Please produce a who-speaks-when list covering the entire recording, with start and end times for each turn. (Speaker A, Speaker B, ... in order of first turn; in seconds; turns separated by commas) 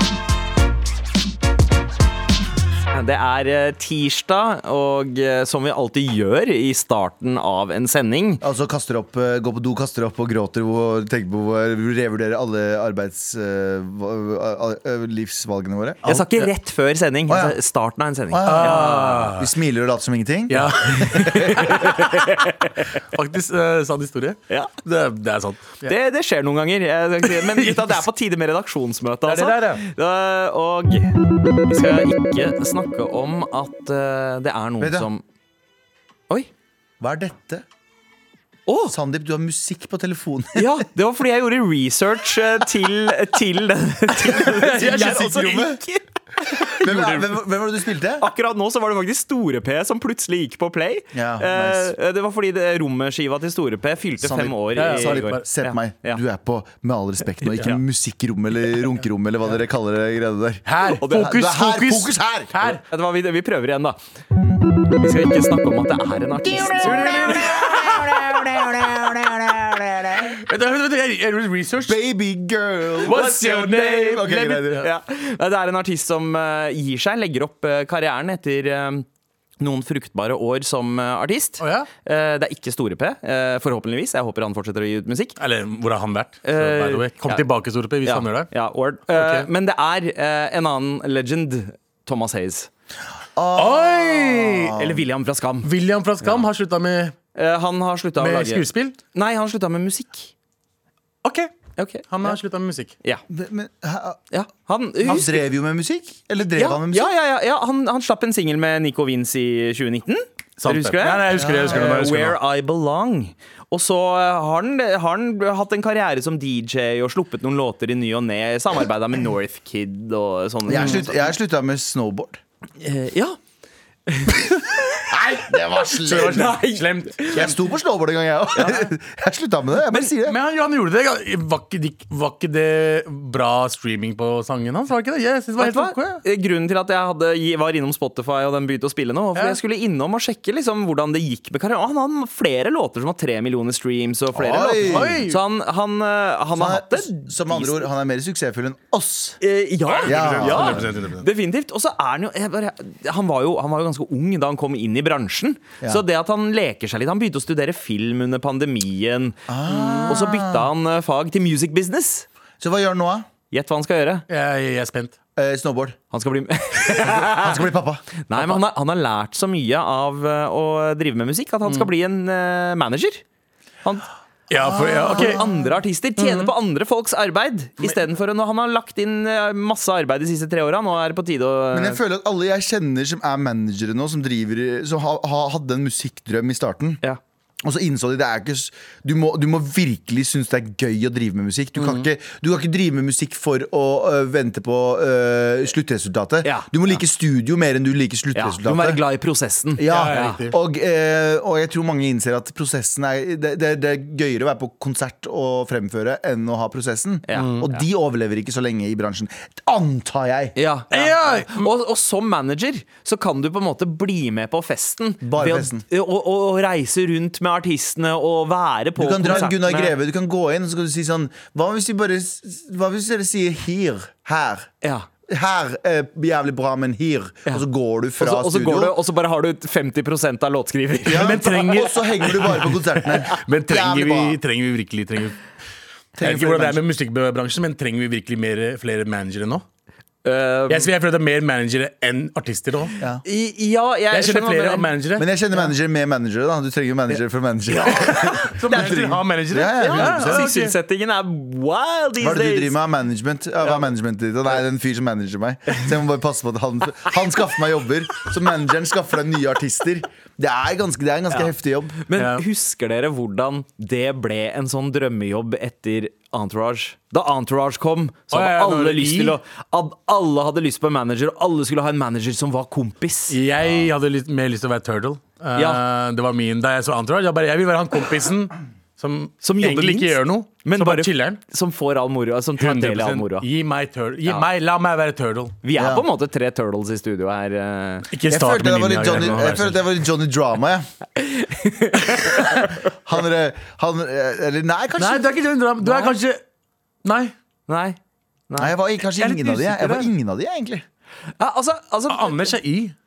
Speaker A: 2.9-8.4, Speaker B: 8.4-16.2, Speaker A: 16.1-19.3, Speaker B: 17.3-17.6, Speaker B: 18.3-21.9, Speaker C: 18.4-19.5, Speaker C: 20.5-22.5, Speaker A: 21.3-22.9, Speaker C: 23.1-25.9, Speaker A: 25.8-31.2, Speaker C: 27.2-28.1, Speaker C: 29.3-29.8, Speaker A: 31.7-35.2, Speaker B: 34.8-35.1, Speaker B: 37.0-37.6, Speaker A: 38.7-38.9, Speaker B: 38.9-40.8, Speaker A: 40.5-46.0, Speaker C: 44.3-45.6, Speaker B: 44.5-45.8, Speaker C: 46.5-47.3, Speaker B: 46.8-48.3, Speaker A: 48.2-56.2, Speaker B: 51.1-52.0, Speaker B: 54.2-62.7, Speaker C: 54.8-55.4, Speaker A: 57.5-57.8, Speaker C: 60.7-62.8, Speaker A: 60.9-61.5, Speaker A: 62.9-64.0, Speaker A: 65.0-68.9, Speaker B: 66.5-70.4, Speaker C: 67.5-68.1, Speaker C: 70.5-72.0, Speaker B: 71.9-74.9, Speaker C: 73.0-74.7, Speaker A: 73.1-79.1, Speaker A: 79.6-85.4, Speaker C: 81.6-81.9, Speaker C: 85.4-88.5, Speaker A: 86.5-87.4, Speaker A: 88.0-92.7, Speaker C: 89.1-89.5, Speaker B: 93.3-95.0, Speaker C: 93.5-94.7, Speaker A: 94.2-95.7, Speaker C: 95.6-97.2, Speaker A: 97.3-100.3, Speaker C: 98.2-99.0, Speaker C: 101.2-101.5, Speaker A: 101.8-102.4, Speaker C: 102.1-102.9, Speaker B: 103.3-104.2, Speaker A: 104.3-105.4, Speaker B: 105.0-107.2, Speaker A: 106.6-121.2, Speaker C: 110.6-112.4, Speaker B: 111.4-111.8, Speaker B: 120.7-122.4, Speaker C: 120.8-121.0, Speaker A: 122.8-123.4, Speaker A: 124.1-125.1, Speaker B: 125.1-126.6, Speaker C: 126.0-127.5, Speaker A: 126.1-127.5, Speaker B: 127.3-130.4, Speaker A: 128.6-128.9, Speaker C: 130.1-136.2, Speaker A: 135.6-147.9, Speaker B: 144.3-145.2, Speaker C: 144.8-145.4, Speaker B: 146.6-149.4, Speaker A: 149.4-162.3, Speaker C: 149.9-151.3, Speaker B: 150.1-150.9, Speaker B: 159.5-160.7, Speaker C: 159.8-160.1, Speaker B: 162.6-163.3, Speaker A: 163.5-164.2, Speaker C: 164.3-165.2, Speaker B: 165.4-166.0, Speaker A: 166.1-167.6, Speaker B: 166.9-168.1, Speaker A: 168.3-173.2, Speaker C: 174.5-175.4, Speaker B: 174.6-175.7, Speaker A: 175.1-182.0, Speaker C: 176.2-176.5, Speaker B: 181.7-187.0, Speaker B: 187.6-199.0, Speaker C: 191.8-192.1, Speaker A: 196.4-196.7, Speaker A: 198.3-200.4, Speaker B: 199.8-210.6, Speaker C: 199.9-200.6, Speaker A: 207.3-207.8, Speaker C: 207.3-207.7, Speaker A: 210.6-219.9, Speaker C: 210.9-211.7, Speaker B: 215.2-215.8, Speaker B: 219.0-224.7, Speaker A: 224.8-225.1, Speaker B: 225.3-229.0, Speaker A: 228.2-231.7, Speaker B: 231.1-234.4, Speaker C: 231.1-235.4, Speaker B: 236.2-236.8, Speaker C: 236.2-239.6, Speaker A: 240.2-240.9, Speaker C: 240.7-242.9, Speaker A: 243.2-244.9, Speaker C: 244.1-245.3, Speaker B: 245.2-250.5, Speaker A: 247.7-249.0, Speaker C: 247.9-250.7, Speaker A: 249.8-252.8, Speaker B: 252.2-262.0, Speaker A: 261.3-273.4, Speaker C: 262.2-262.4, Speaker C: 268.3-269.4, Speaker C: 273.3-281.4, Speaker A: 275.6-275.8, Speaker A: 279.4-283.5, Speaker C: 282.6-285.6, Speaker A: 285.6-288.1, Speaker B: 285.8-286.1, Speaker C: 288.1-289.9, Speaker B: 288.3-290.9, Speaker A: 291.2-292.8, Speaker B: 292.9-295.3, Speaker C: 295.0-296.4, Speaker A: 295.8-296.1, Speaker C: 297.1-297.3, Speaker A: 297.7-298.0, Speaker A: 298.5-300.1, Speaker B: 298.6-300.9, Speaker A: 301.4-302.5, Speaker C: 302.1-302.9